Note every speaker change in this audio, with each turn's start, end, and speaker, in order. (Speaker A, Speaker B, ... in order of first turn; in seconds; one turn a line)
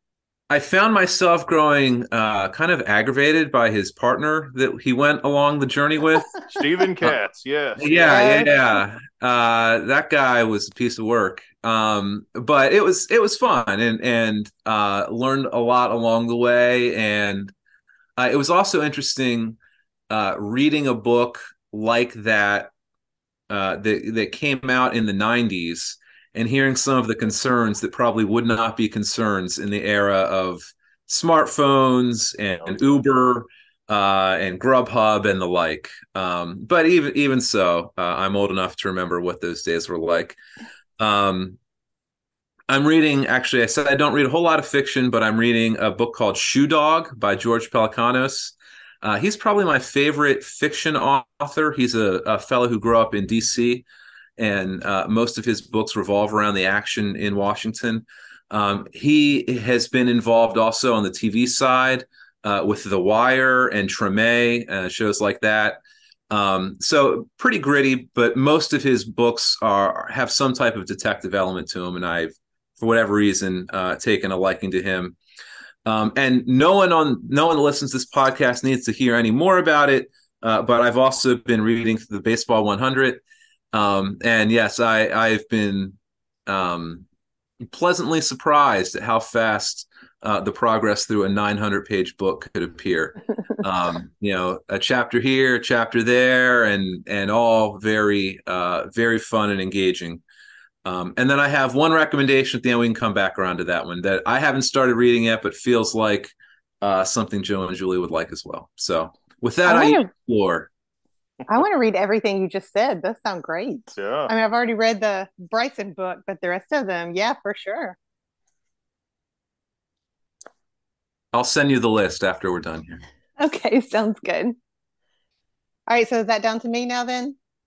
Speaker A: 0.5-6.3
Speaker B: 6.5-8.5
Speaker A: 7.8-17.5
Speaker C: 8.1-8.5
Speaker A: 18.2-19.6
Speaker A: 20.1-22.7
Speaker A: 23.5-40.4
Speaker A: 41.0-41.6
Speaker A: 42.7-53.9
Speaker A: 54.4-75.2
Speaker A: 75.8-83.2
Speaker A: 83.7-87.0
Speaker A: 87.6-100.2
Speaker A: 100.8-110.7
Speaker C: 109.7-110.1
Speaker C: 111.5-118.0
Speaker B: 114.0-114.3
Speaker A: 121.3-123.0
Speaker C: 123.4-124.5
Speaker C: 125.9-127.4